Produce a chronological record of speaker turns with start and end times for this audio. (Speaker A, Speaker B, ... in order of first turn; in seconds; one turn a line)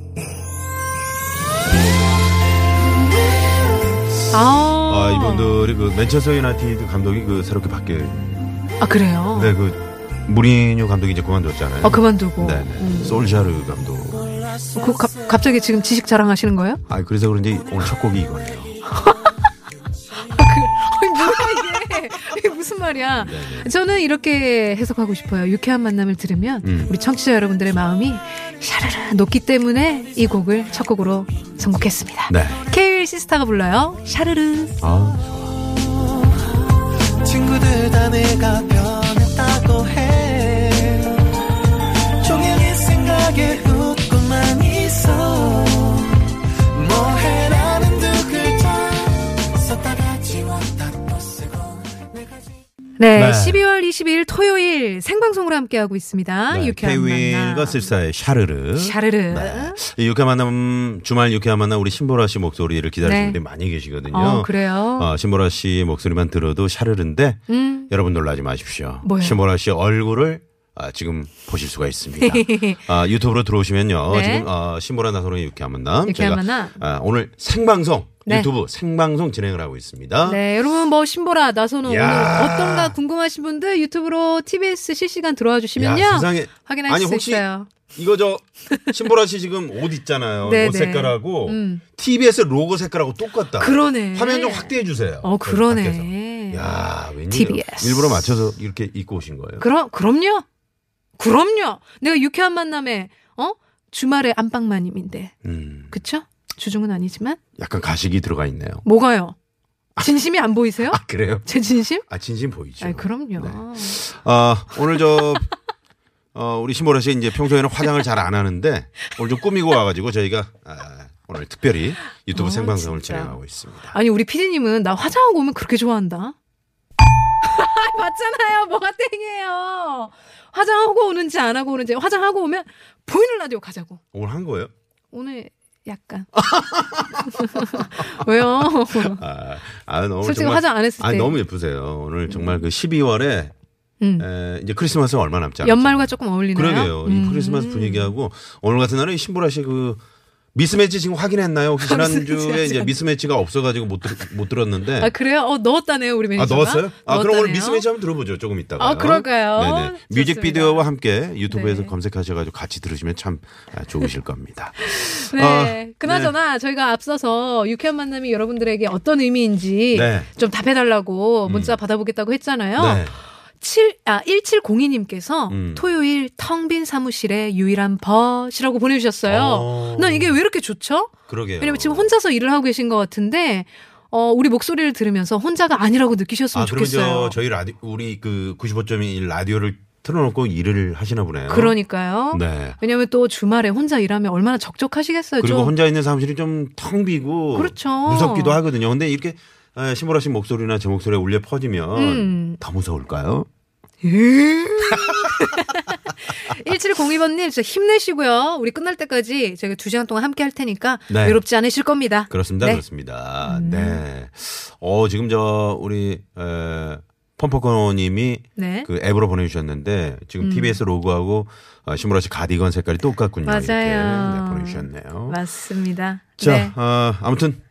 Speaker A: 4.3-5.7
Speaker B: 4.9-8.5
Speaker A: 8.8-9.5
Speaker B: 9.3-14.4
Speaker A: 11.8-13.2
Speaker A: 14.7-16.8
Speaker B: 16.9-18.8
Speaker A: 18.9-19.3
Speaker A: 20.2-34.8
Speaker B: 23.2-23.7
Speaker B: 26.6-26.9
Speaker B: 32.3-32.6
Speaker B: 34.8-35.5
Speaker C: 35.8-36.5
Speaker C: 37.2-41.4
Speaker C: 42.2-52.4
Speaker A: 53.0-57.9
Speaker B: 53.1-53.6
Speaker B: 56.5-80.4
Speaker A: 58.8-59.8
Speaker A: 63.0-63.4
Speaker A: 64.1-65.1
Speaker A: 67.5-67.9
Speaker A: 69.0-69.4
Speaker A: 72.2-72.8
Speaker A: 74.1-74.5
Speaker A: 76.1-76.8
Speaker A: 80.2-87.7
Speaker B: 81.8-83.0
Speaker B: 85.8-99.7
Speaker A: 90.4-91.8
Speaker A: 93.6-96.8
Speaker A: 97.3-98.3
Speaker A: 99.6-100.4
Speaker A: 101.2-105.3
Speaker B: 105.4-106.0
Speaker A: 105.9-107.4
Speaker B: 107.6-108.8
Speaker A: 108.8-109.3
Speaker A: 110.0-112.0
Speaker B: 110.9-111.5
Speaker B: 112.0-115.5
Speaker A: 112.8-114.0
Speaker B: 116.3-123.9
Speaker A: 122.3-123.3
Speaker A: 123.9-126.3
Speaker A: 127.4-134.0
Speaker B: 134.1-134.7
Speaker A: 135.1-136.3
Speaker B: 136.3-143.5
Speaker A: 137.3-139.2
Speaker A: 140.2-141.4
Speaker A: 142.3-142.6
Speaker A: 144.0-144.3
Speaker B: 144.2-145.9
Speaker A: 145.6-148.1
Speaker B: 146.5-150.0
Speaker B: 150.5-155.1
Speaker A: 151.8-152.9
Speaker A: 155.0-157.8
Speaker B: 156.3-166.3
Speaker A: 158.8-160.8
Speaker A: 161.5-161.9
Speaker A: 164.8-173.0
Speaker B: 169.9-170.3
Speaker B: 171.4-171.8
Speaker B: 172.8-173.2
Speaker A: 173.6-187.3
Speaker B: 175.5-175.8
Speaker B: 179.3-180.4
Speaker B: 181.3-182.1
Speaker B: 186.5-191.8
Speaker A: 191.5-195.7
Speaker B: 192.3-192.8
Speaker B: 195.4-203.5
Speaker A: 197.5-198.6
Speaker A: 201.9-202.6
Speaker A: 204.0-212.8
Speaker B: 204.8-205.5
Speaker B: 211.1-211.4
Speaker B: 212.3-225.4
Speaker A: 213.4-214.0
Speaker A: 218.6-218.9
Speaker A: 220.4-220.8
Speaker A: 223.4-226.7
Speaker B: 226.4-227.6